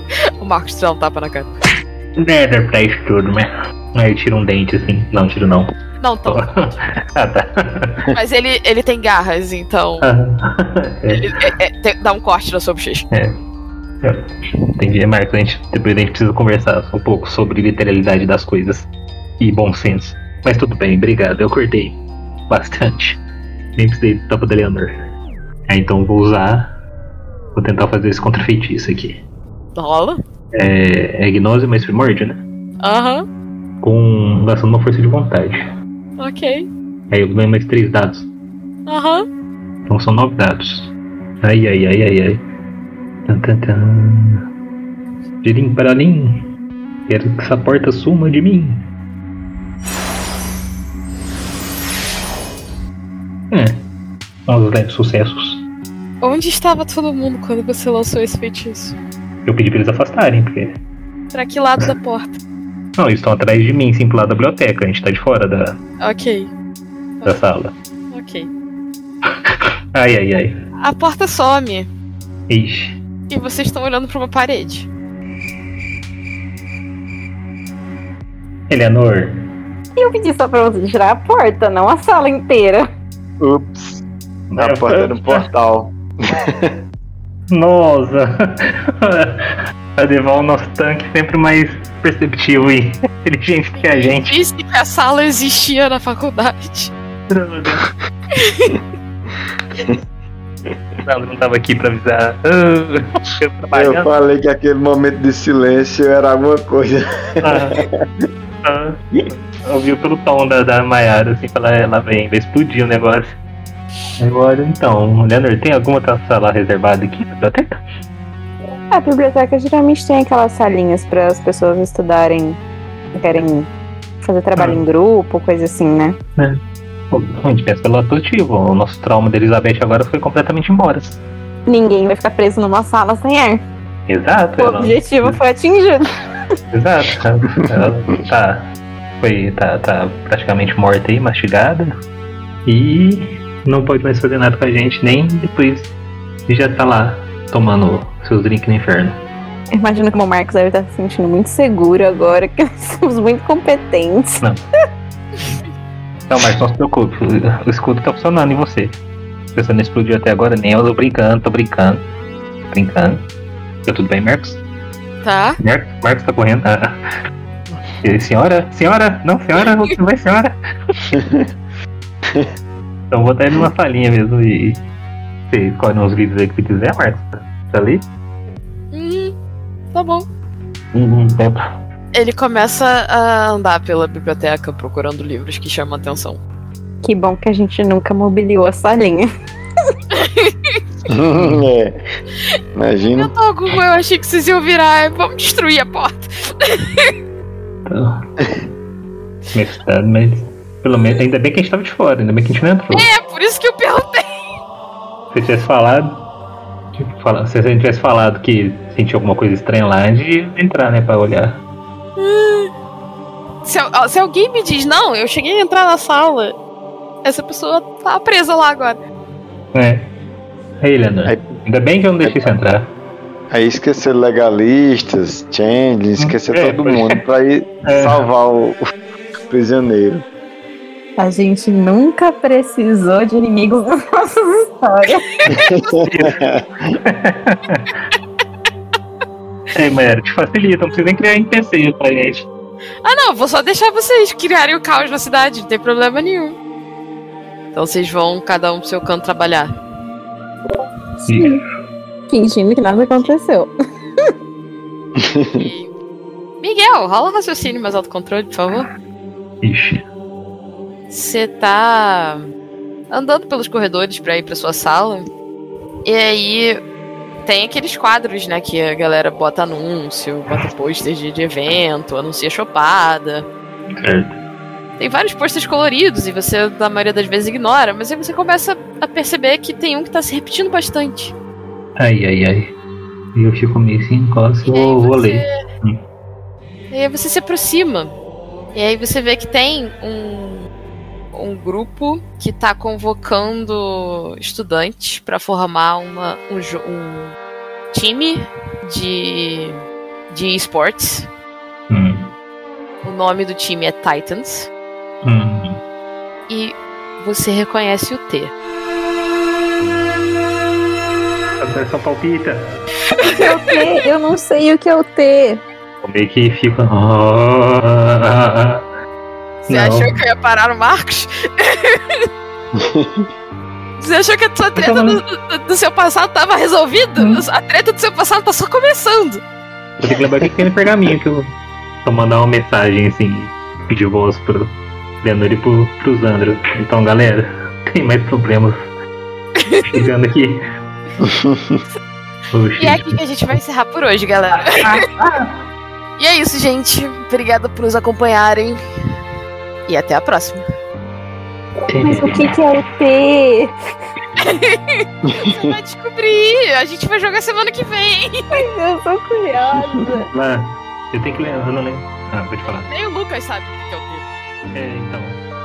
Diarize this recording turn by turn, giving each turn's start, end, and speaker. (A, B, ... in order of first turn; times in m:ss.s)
0:00.4-0:01.5 A
0:02.2-0:05.7 B
0:06.0-0:06.8 A
0:06.3-0:08.1 B
0:08.1-0:10.1 A
0:10.0-0:11.2 B
0:11.1-0:13.1 A
0:14.0-0:18.9 B
0:19.4-0:23.2 B
0:23.8-0:25.0 B
0:25.7-0:26.7 B
0:27.6-0:29.2 B
0:29.8-0:30.2 A
0:30.5-0:32.4 B
0:32.8-0:33.2 A
0:33.8-0:35.6 B
0:36.2-0:36.7 A
0:37.1-0:38.3 B
0:38.9-0:39.3 A
0:39.9-0:42.4 B
0:43.3-0:44.4 B
0:45.4-0:46.5 B
0:47.1-0:48.8 B
0:53.5-0:53.8 B
0:54.5-0:55.6 B
0:56.2-0:59.0 A
0:59.4-1:00.8 B
1:01.3-1:02.4 A
1:03.0-1:05.8 B
1:06.0-1:06.5 A
1:07.2-1:07.7 B
1:08.1-1:08.5 A
1:09.5-1:10.6 B
1:10.8-1:11.9 A
1:12.5-1:13.0 B
1:13.3-1:14.9 A
1:18.7-1:19.5 B
1:20.0-1:22.9 C
1:23.4-1:24.0 D
1:24.5-1:25.5 B
1:24.6-1:26.8 D
1:27.5-1:34.4 B
1:33.8-1:36.9 A
1:37.3-1:37.9 B
1:38.4-1:38.8 A
1:41.0-1:44.1 B
1:43.7-1:47.9 D
1:47.4-1:47.8 B
1:48.6-1:49.0 B
1:49.7-1:53.3 B
1:54.2-1:57.8 B
1:58.9-2:02.6 C
2:03.1-2:03.7 C
2:04.2-2:06.2 C
2:04.6-2:04.8 B
2:07.1-2:11.2 B
2:11.7-2:13.6 C
2:14.1-2:15.4 B
2:14.6-2:16.1 C
2:16.7-2:21.9 B
2:22.7-2:25.9 B
2:26.5-2:29.2 B
2:29.7-2:34.4 C
2:36.3-2:39.0 B
2:39.6-2:42.0 B
2:42.7-2:43.3 B
2:43.8-2:44.6 B
2:45.2-2:45.6 A
2:45.6-2:47.0 B
2:48.0-2:51.0 B
2:51.1-2:51.5 D
2:53.1-2:54.8 B
2:55.5-2:58.0 B
2:58.9-2:59.4 A
2:59.9-3:00.3 A
3:00.9-3:01.6 B
3:02.1-3:06.4 A
3:07.0-3:09.3 C
3:10.1-3:10.8 A
3:11.1-3:12.0 D
3:11.4-3:11.6 B
3:12.8-3:13.3 D
3:13.0-3:17.1 A
3:17.9-3:18.5 B
3:19.5-3:23.1 B
3:22.9-3:24.3 A
3:25.3-3:26.3 B
3:27.0-3:31.6 B
3:32.2-3:32.7 A
3:33.6-3:36.6 A
3:37.2-3:39.0 A
3:39.7-3:40.1 B
3:40.8-3:42.9 B
3:42.2-3:42.5 D
3:43.5-3:48.8 D
3:46.2-3:47.2 B
3:47.8-3:48.2 B
3:49.5-3:50.2 D
3:51.2-3:55.3 C
3:55.4-3:56.1 A
3:55.5-3:56.9 D
3:56.1-3:56.4 B
3:56.9-3:57.9 B
3:59.7-4:02.5 B
4:03.0-4:06.6 A
4:07.7-4:09.7 A
4:11.3-4:11.6 C
4:11.3-4:11.6 B
4:12.3-4:13.7 C
4:15.2-4:15.7 D
4:15.5-4:15.9 A
4:16.6-4:18.9 A
4:19.6-4:20.0 B
4:21.1-4:22.4 A
4:23.1-4:25.2 A
4:26.0-4:26.8 A
4:27.5-4:33.5 A
4:34.0-4:34.4 B
4:35.0-4:41.4 A
4:42.0-4:42.8 B
4:43.3-4:46.0 B
4:44.6-4:45.5 A
4:46.9-4:48.2 A
4:48.7-4:50.7 A
4:51.3-4:57.4 A
4:57.9-5:01.3 A
5:01.9-5:02.3 B
5:03.0-5:04.7 A
5:05.2-5:05.8 B
5:06.5-5:08.5 A
5:11.6-5:12.8 B
5:13.2-5:13.4 A
5:13.3-5:15.6 C
5:16.0-5:18.9 B
5:19.6-5:22.3 A
5:19.7-5:20.1 B
5:22.8-5:23.3 D
5:24.0-5:29.4 A
5:24.8-5:25.2 B
5:27.2-5:27.4 B
5:30.0-5:30.7 D
5:30.0-5:31.5 B
5:32.0-5:38.8 B
5:39.6-5:39.9 A
5:39.9-5:40.6 B
5:41.2-5:41.8 D
5:42.5-5:43.6 B
5:42.8-5:45.0 A
5:44.6-5:45.5 B
5:46.2-5:48.8 A
5:49.9-5:50.6 A
5:51.9-5:52.5 B
5:51.9-5:53.7 C
5:54.4-5:58.6 A
5:55.3-5:55.6 D
5:58.5-6:00.3 C
6:00.3-6:02.9 B
6:02.6-6:04.3 A
6:04.7-6:05.4 B